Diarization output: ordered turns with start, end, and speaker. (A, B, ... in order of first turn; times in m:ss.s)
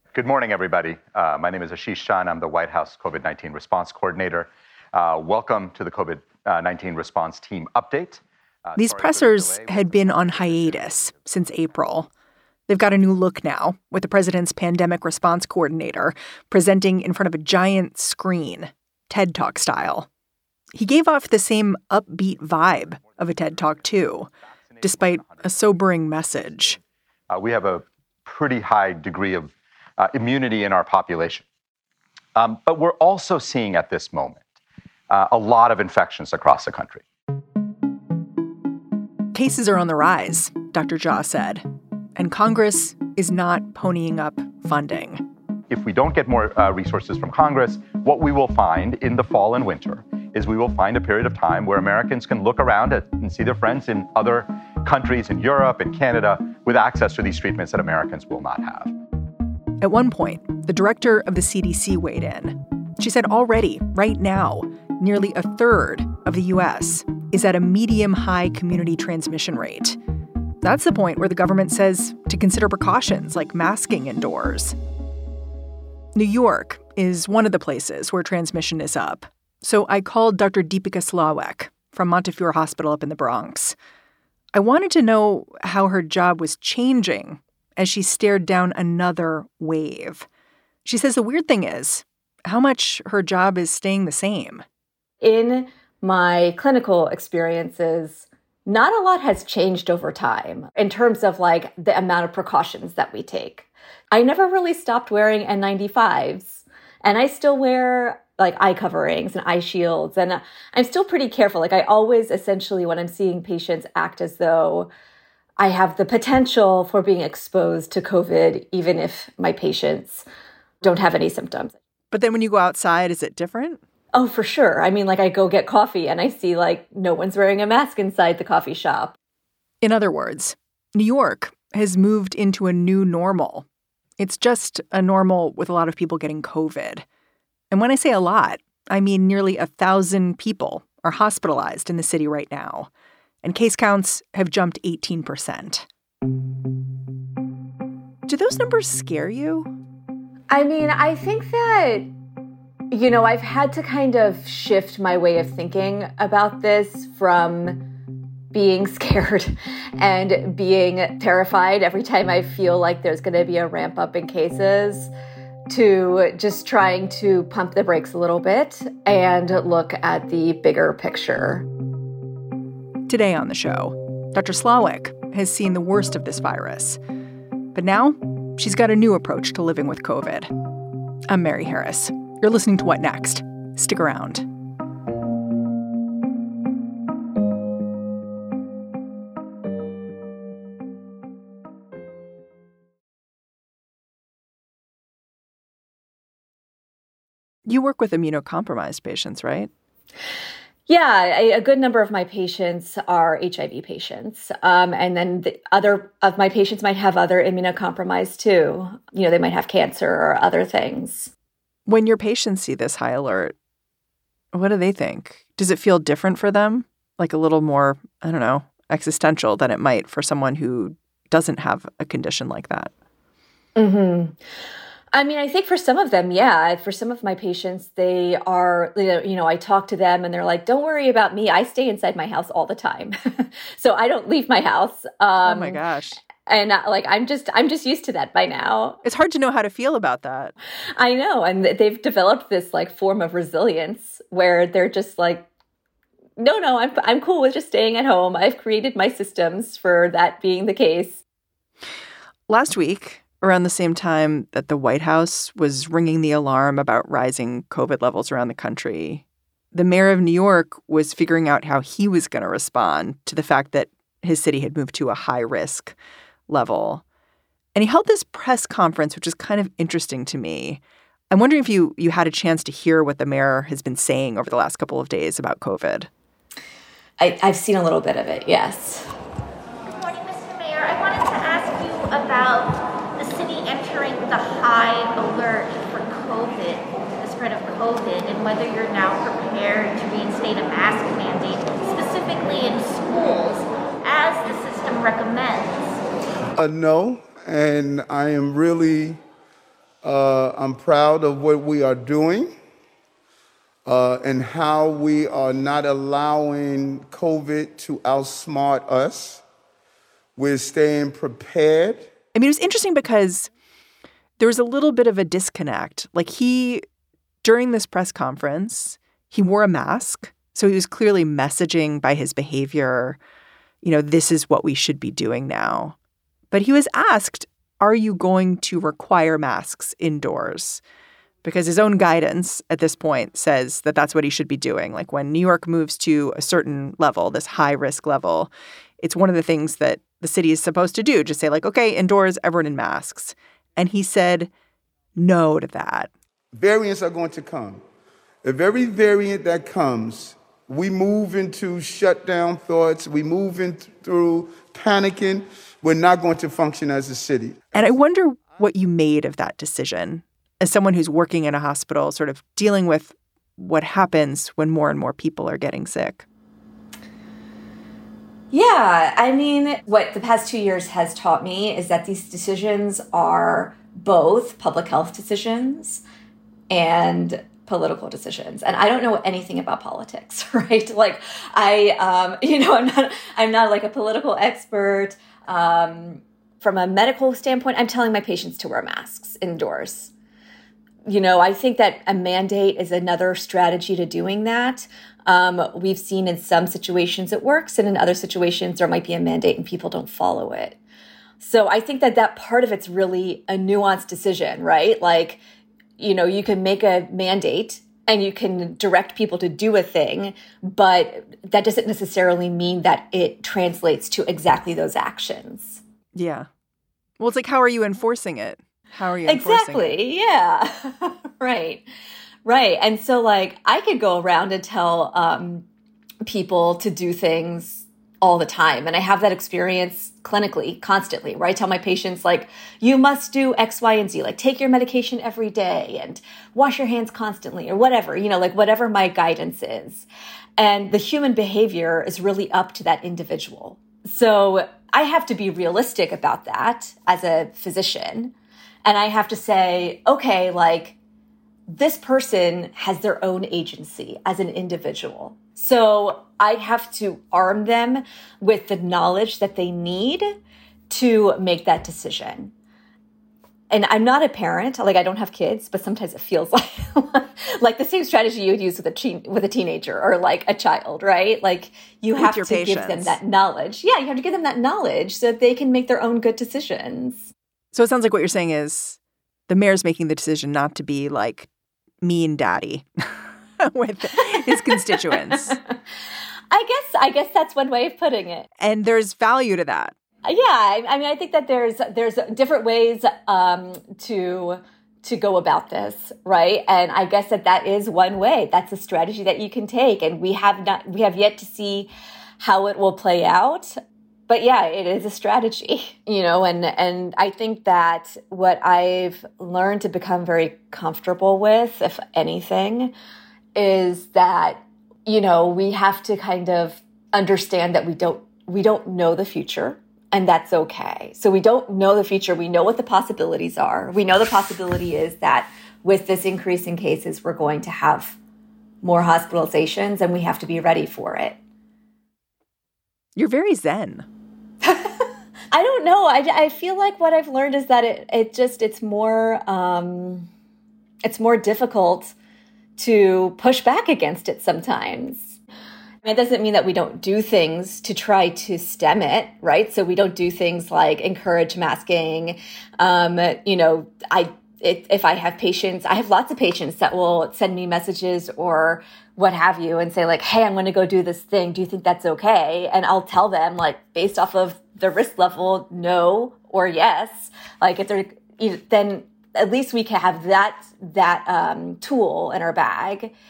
0:00.1-0:11.5 A
0:08.8-0:12.1 B
0:12.7-0:20.1 B
0:20.7-0:24.3 B
0:24.8-0:25.5 A
0:24.8-0:26.8 B
0:27.3-0:31.5 A
0:32.4-0:34.4 A
0:35.1-0:37.0 A
0:39.3-0:41.6 B
0:42.2-0:45.2 B
0:45.7-0:58.9 A
0:59.8-1:10.0 B
1:10.6-1:14.8 B
1:16.2-1:23.8 B
1:24.5-1:30.3 B
1:30.8-1:34.6 B
1:35.2-1:54.9 C
1:55.6-2:00.2 C
2:00.8-2:01.8 C
2:02.1-2:03.8 B
2:04.1-2:09.2 C
2:09.8-2:13.7 B
2:14.2-2:17.0 B
2:17.7-2:22.9 B
2:23.4-2:25.8 B
2:28.3-2:29.7 B
2:30.5-2:32.1 C
2:32.9-2:37.8 C
2:38.5-2:45.1 C
2:45.7-2:51.6 C
2:53.1-2:57.0 B
2:57.7-3:00.5 B
3:01.3-3:04.5 B
3:17.7-3:19.7 B
3:20.9-3:31.3 C
3:31.9-3:33.6 B
3:34.5-3:42.9 B
3:43.8-3:44.4 C
3:45.1-3:59.0 C
3:55.4-3:56.2 B
3:59.0-4:00.5 B
4:01.0-4:05.5 C
4:06.4-4:11.2 C
4:12.5-4:26.0 B
4:26.5-4:27.0 B
4:27.8-4:36.1 B
4:37.2-4:39.1 C
4:39.9-4:56.0 D
4:56.6-4:59.2 E
5:00.0-5:02.5 E
5:03.8-5:09.4 E
5:10.4-5:12.1 E
5:12.3-5:13.5 B
5:14.4-5:16.8 B
5:17.4-5:23.2 B
5:23.8-5:26.0 B
5:26.5-5:30.8 B
5:31.4-5:38.5 B
5:39.0-5:44.5 B
5:45.2-5:46.1 B
5:46.5-5:47.8 E
5:48.4-5:57.9 E
5:57.7-6:06.3 B
6:08.5-6:16.0 C
6:16.7-6:30.1 C
6:31.1-6:40.8 C
6:41.4-6:45.4 C
6:46.0-6:55.8 C
6:56.2-6:56.5 B
6:57.2-7:00.0 B
6:59.3-7:01.8 C
7:02.4-7:05.7 C
7:06.2-7:20.1 C
7:20.6-7:28.3 C
7:28.8-7:31.0 C
7:31.7-7:40.3 C
7:40.9-7:42.5 C
7:43.7-7:57.3 C
7:52.2-7:53.2 B
7:57.7-8:01.5 B
8:02.0-8:05.6 B
8:04.5-8:05.4 C
8:06.5-8:08.5 C
8:08.6-8:10.0 B
8:10.2-8:23.8 C
8:24.3-8:32.9 C
8:33.6-8:48.2 C
8:48.8-8:51.4 C
8:53.2-8:54.1 B
8:54.6-9:00.3 C
9:01.0-9:02.1 C
9:02.8-9:05.4 C
9:06.0-9:33.1 C